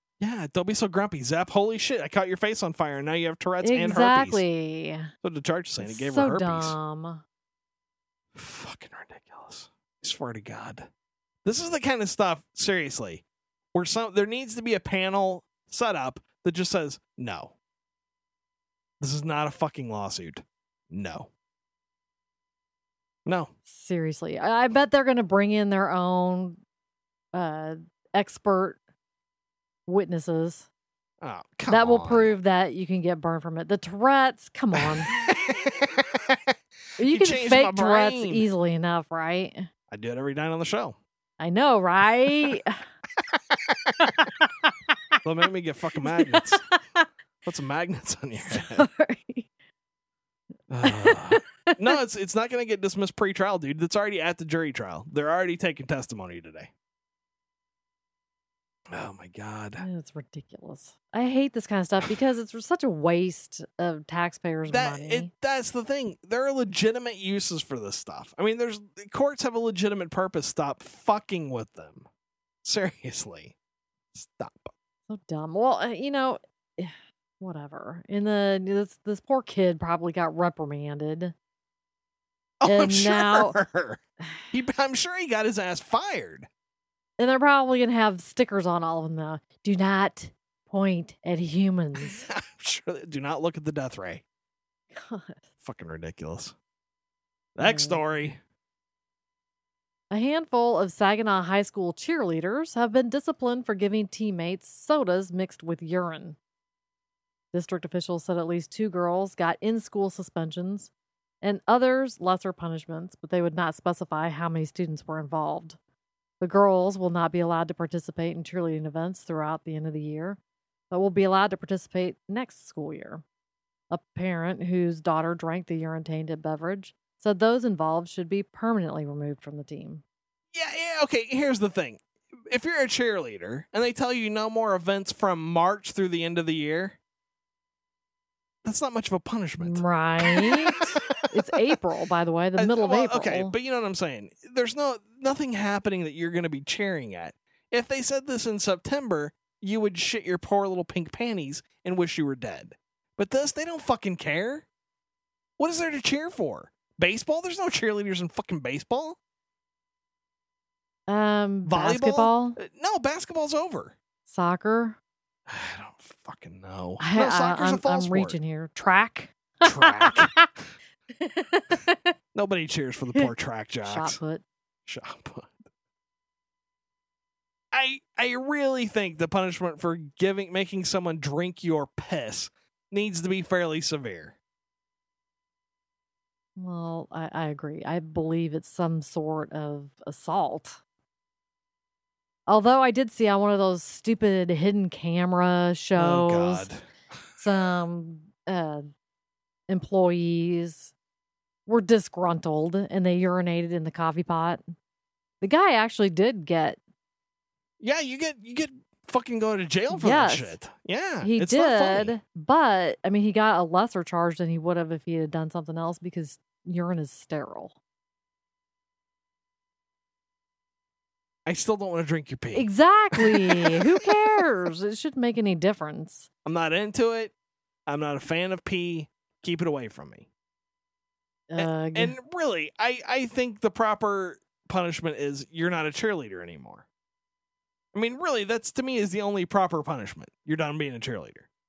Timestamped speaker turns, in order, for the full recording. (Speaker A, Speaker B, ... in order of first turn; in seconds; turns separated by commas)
Speaker A: 0.2-4.4, Speaker B: 3.6-5.1, Speaker A: 5.2-6.8, Speaker B: 5.8-7.2, Speaker A: 8.3-10.9, Speaker A: 11.4-17.5, Speaker A: 19.0-21.3, Speaker A: 23.3-23.5, Speaker B: 23.7-26.6, Speaker B: 27.3-28.8, Speaker B: 29.9-30.7, Speaker A: 31.2-32.4, Speaker B: 31.7-35.1, Speaker A: 34.8-36.4, Speaker A: 37.0-38.5, Speaker B: 37.0-39.7, Speaker A: 39.9-41.0, Speaker B: 41.4-42.8, Speaker B: 44.1-44.7, Speaker A: 45.2-46.6, Speaker B: 46.0-47.1, Speaker A: 47.5-48.9, Speaker B: 48.3-49.5, Speaker A: 50.7-56.7, Speaker B: 50.8-51.9, Speaker A: 58.9-59.9, Speaker B: 59.8-65.3, Speaker A: 64.7-72.1, Speaker A: 72.6-73.5, Speaker A: 74.1-74.7, Speaker B: 75.1-81.3, Speaker A: 82.6-84.0, Speaker B: 82.7-83.6, Speaker A: 84.5-86.5, Speaker B: 87.2-92.3, Speaker A: 92.0-94.2, Speaker B: 94.9-95.4, Speaker A: 95.6-96.5, Speaker A: 97.5-98.4, Speaker B: 97.6-98.2, Speaker B: 100.1-106.4, Speaker B: 107.5-110.9, Speaker B: 111.4-115.8, Speaker B: 116.4-120.4, Speaker B: 120.9-123.2, Speaker B: 123.9-130.0, Speaker A: 130.5-137.0, Speaker A: 138.6-140.8, Speaker B: 139.6-140.8, Speaker B: 141.3-143.6, Speaker A: 142.6-154.7, Speaker A: 155.6-159.2, Speaker B: 161.1-162.6, Speaker A: 161.7-164.0, Speaker B: 164.3-165.0, Speaker A: 165.5-168.4, Speaker B: 167.0-170.5, Speaker A: 169.6-170.3, Speaker B: 171.2-172.1, Speaker A: 172.3-174.2, Speaker B: 173.8-174.4, Speaker A: 174.9-175.6, Speaker A: 177.7-184.3, Speaker B: 186.6-190.8, Speaker B: 192.5-196.7, Speaker A: 196.0-197.4, Speaker B: 197.4-198.9, Speaker B: 199.7-200.9, Speaker B: 201.7-204.7, Speaker B: 205.4-206.8, Speaker A: 207.8-212.2, Speaker B: 209.9-210.6, Speaker B: 211.2-217.8, Speaker A: 221.5-224.4, Speaker B: 222.5-226.3, Speaker A: 226.4-227.3, Speaker A: 227.9-230.3, Speaker B: 231.5-232.2, Speaker A: 231.6-236.8, Speaker A: 237.9-241.5